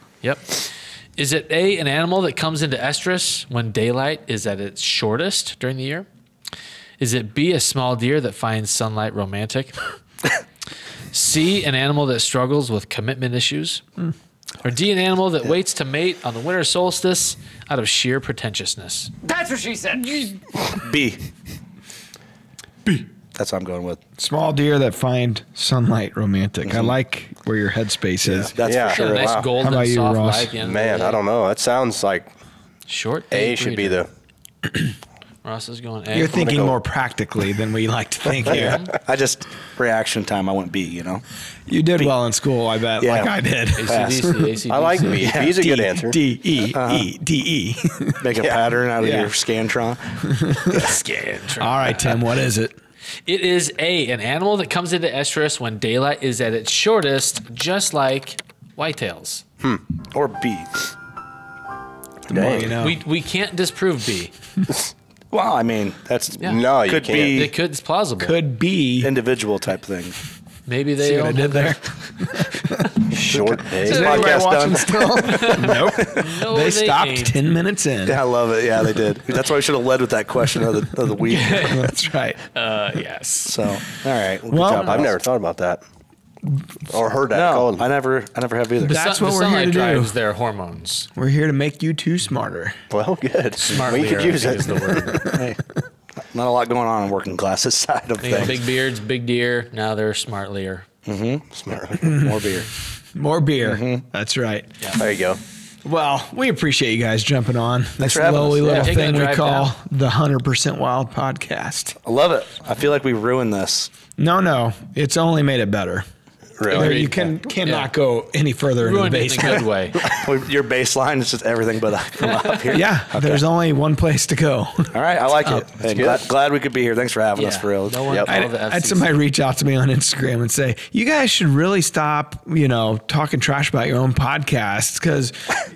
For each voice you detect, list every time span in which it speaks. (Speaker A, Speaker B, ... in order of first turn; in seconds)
Speaker A: 0.2-6.1, 7.0-9.8, 11.1-13.8, 14.6-19.1, 28.9-31.2, 32.9-34.0, 35.4-36.4, 38.5-38.9, 43.8-45.4, 50.7-52.3, 53.3-59.4, 62.8-64.3, 66.4-68.4, 70.7-72.0, 75.2-77.4, 81.3-81.8, 82.5-83.6, 88.9-91.1, 93.6-95.4, 98.2-100.9, 108.7-109.7, 116.7-117.9, 118.8-120.2, 127.4-129.1
Speaker B: 20.6-21.2, 23.3-24.0, 26.6-26.9, 28.2-29.5, 38.5-41.2, 43.0-43.4, 43.9-44.2, 45.2-45.6, 46.7-47.1, 48.2-50.0, 60.1-60.8, 65.3-67.5, 69.0-70.2, 73.2-76.2, 78.1-81.9, 83.5-85.2, 87.3-89.0, 95.3-95.6, 96.3-98.6, 101.0-102.7, 103.6-104.0, 108.0-108.9, 112.0-113.9, 117.0-117.3, 120.0-123.4, 124.9-128.0
Speaker C: 24.2-28.5, 29.6-30.5, 36.1-38.8, 41.7-44.4, 45.6-48.2, 49.0-49.3, 50.2-50.9, 51.6-52.8, 62.3-63.0, 68.2-69.1, 71.0-72.9, 73.7-78.2, 81.6-82.4, 84.5-85.0, 88.8-90.1, 91.2-92.8, 102.0-102.5, 103.2-104.7, 105.8-112.0, 114.2-116.0, 116.7-119.7, 122.7-124.9, 128.3-135.6
Speaker D: 28.6-29.5, 30.6-32.3, 33.3-34.1, 36.3-36.8, 38.5-38.8, 44.7-46.2, 62.3-62.8, 66.4-67.5, 73.1-74.4, 84.8-85.8, 86.9-87.8, 92.9-95.0, 101.5-102.2, 105.0-105.4, 116.6-117.0, 125.9-126.2